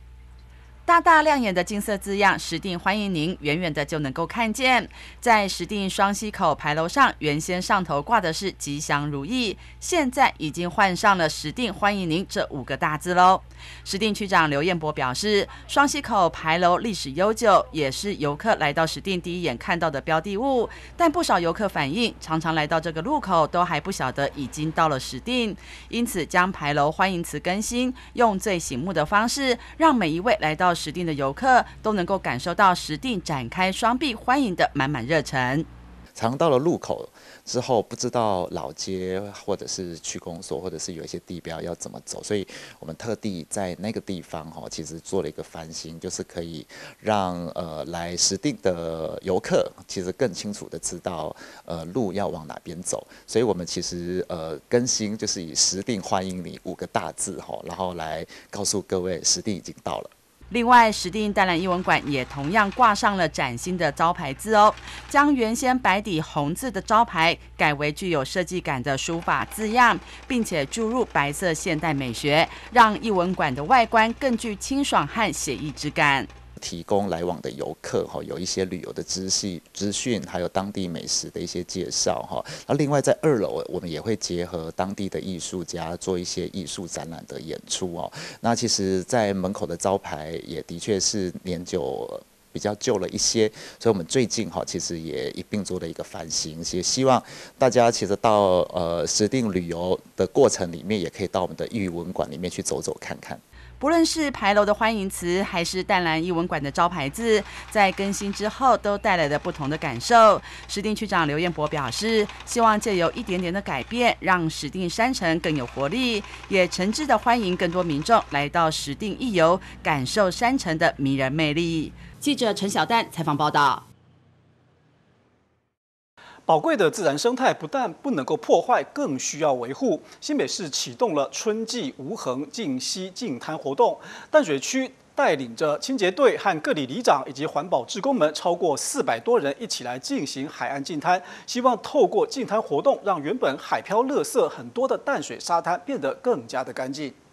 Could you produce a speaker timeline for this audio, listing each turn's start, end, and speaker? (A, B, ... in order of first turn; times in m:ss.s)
0:00.9-0:35.7 A
0:36.2-1:00.1 B
1:00.5-1:16.3 A
1:16.6-1:43.4 B
1:43.8-2:03.8 A
2:06.5-2:27.2 C